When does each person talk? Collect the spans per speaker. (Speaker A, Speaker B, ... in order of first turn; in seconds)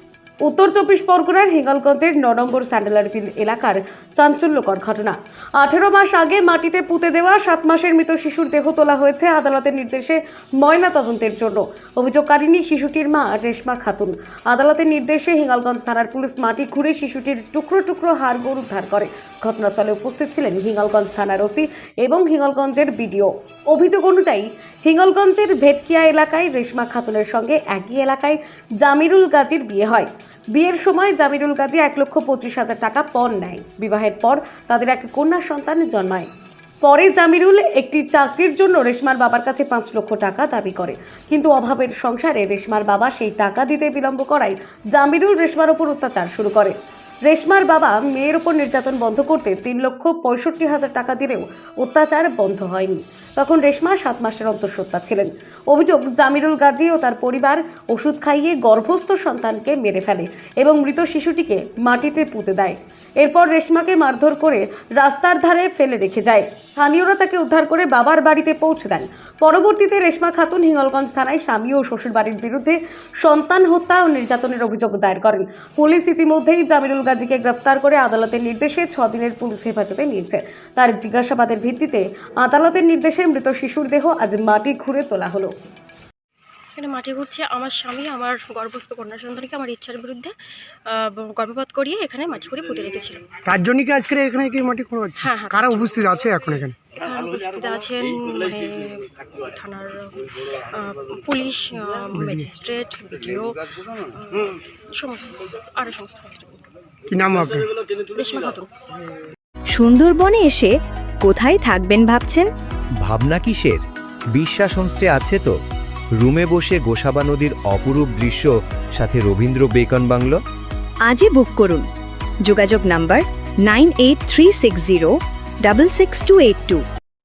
Speaker A: 0.4-36.3, 36.8-46.7, 47.2-85.5
Speaker B: 86.8-90.3, 90.9-93.2, 95.2-96.0, 96.9-106.6, 107.9-108.7
Speaker C: 93.4-96.8, 102.2-102.5, 107.1-107.7
Speaker D: 109.7-112.5, 121.0-121.9, 122.4-126.8
Speaker E: 113.0-113.8, 114.3-115.5, 116.2-120.4